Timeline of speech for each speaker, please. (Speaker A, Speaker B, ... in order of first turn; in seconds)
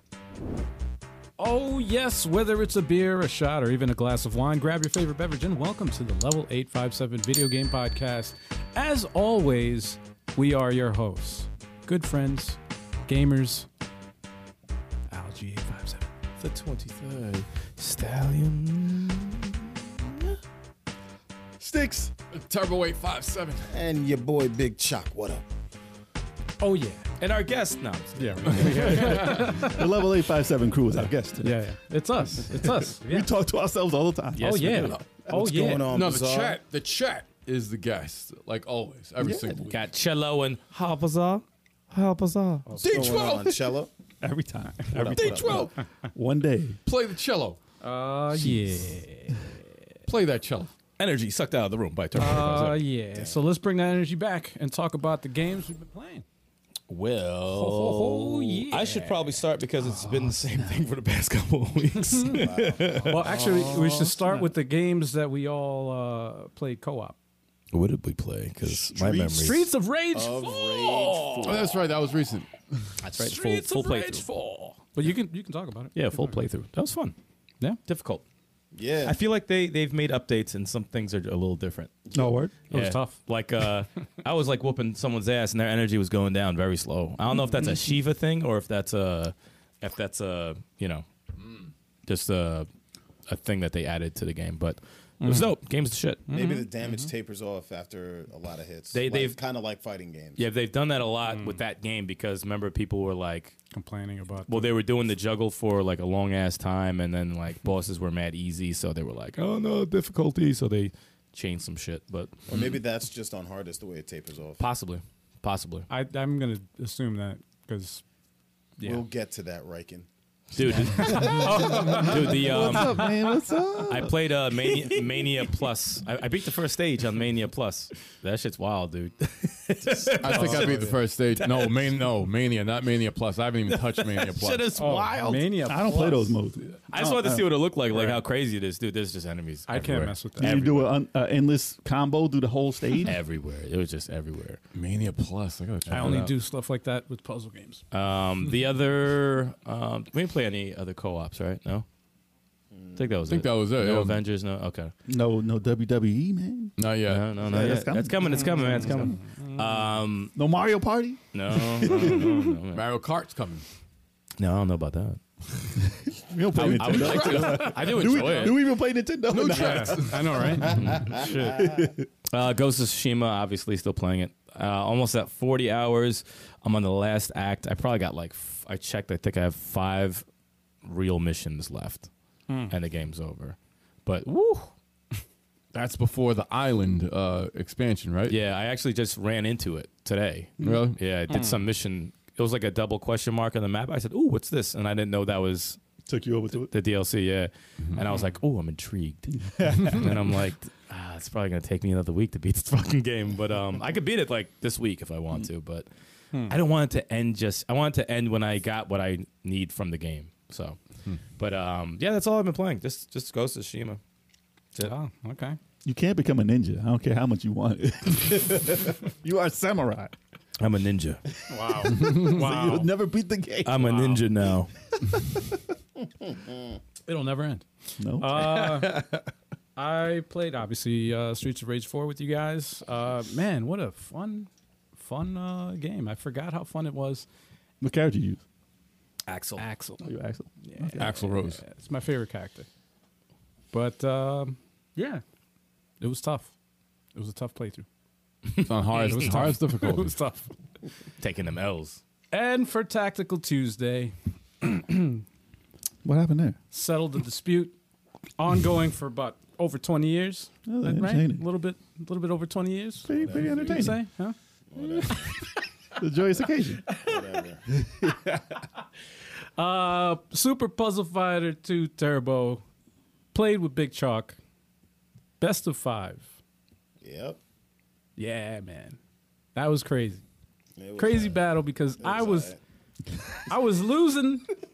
Speaker A: 1.4-13.7, 15.1-16.1, 26.6-27.1, 28.2-29.9, 31.4-33.3, 34.4-36.0, 47.8-49.4, 52.1-56.2, 57.5-59.2, 62.2-62.4, 63.0-67.2, 69.4-71.7, 73.1-76.4, 82.7-83.2, 95.2-95.5, 96.3-97.0, 101.2-101.6, 103.7-104.8, 115.9-118.0, 118.8-119.0, 120.8-123.1, 124.6-125.5, 129.9-130.9, 134.7-136.4, 137.9-138.2, 139.7-140.9, 145.9-147.8, 158.5-159.7, 167.0-168.5, 169.4-171.7, 182.5-182.7, 191.3-191.6, 214.8-215.6, 221.5-222.9, 223.8-224.2, 227.1-227.7, 228.2-229.1, 229.8-237.2, 239.6-240.1, 240.6-242.7, 243.7-245.2, 246.0-246.5, 247.1-247.8, 249.0-250.5, 252.3-255.2, 256.7-257.8, 258.4-264.3, 265.0-265.3, 269.6-272.6, 273.3-274.4, 275.4-276.3, 278.2-279.0, 279.5-280.2, 281.0-282.5, 283.4-284.5
Speaker B: 16.4-20.3, 27.2-29.2, 34.4-35.0, 39.7-42.7, 51.0-52.8, 56.9-64.3, 67.7-69.6, 73.0-74.3, 75.9-77.2, 77.9-78.2, 79.0-82.1, 82.7-91.1, 92.1-92.7, 93.3-96.4, 98.9-99.4, 100.4-103.6, 104.5-112.8, 114.6-115.9, 120.5-123.2, 123.9-131.8, 133.7-135.7, 136.9-140.1, 143.0-144.6, 145.9-146.3, 147.9-151.8, 152.9-154.9, 157.1-160.3, 161.3-162.8, 164.4-165.8, 166.5-168.6, 170.7-171.1, 172.3-180.2, 180.8-182.1, 182.7-184.7, 188.3-195.8, 196.6-205.9, 206.4-210.8, 211.4-214.0, 220.6-221.2, 223.7-224.7, 228.6-229.2, 239.2-239.6, 251.2-252.0
Speaker C: 21.6-22.1, 29.5-31.6, 32.5-35.0, 44.2-46.8, 82.1-82.5, 121.6-124.1, 135.6-137.5, 140.4-143.2, 155.1-156.7, 157.4-159.1, 160.3-162.4, 166.0-172.1, 196.1-196.7, 199.4-200.3, 215.8-220.1, 221.8-224.0, 225.0-225.5, 228.0-228.5, 237.8-238.4, 240.0-241.1, 256.0-256.6, 260.7-261.4, 263.0-264.0, 265.9-266.8, 267.8-268.4
Speaker D: 22.3-23.7, 29.0-29.5, 35.8-39.8, 42.8-43.6, 45.1-45.8, 46.9-47.6, 50.1-50.7, 71.4-72.9, 130.2-134.7, 144.7-146.2, 153.3-154.2, 156.8-157.4, 162.0-163.6, 169.3-170.5, 185.7-188.4, 190.6-191.0, 240.9-241.6, 248.6-250.1
Speaker E: 23.7-25.4, 35.3-36.6, 42.8-43.9, 44.9-45.6, 62.2-63.3, 68.6-69.6, 70.1-71.7, 78.7-79.2, 96.3-100.4, 112.5-114.6, 118.8-120.1, 120.6-122.3, 152.7-153.1, 170.6-171.9, 263.1-263.9, 264.7-265.3, 267.0-267.6, 277.0-277.4, 280.8-281.4, 282.0-282.6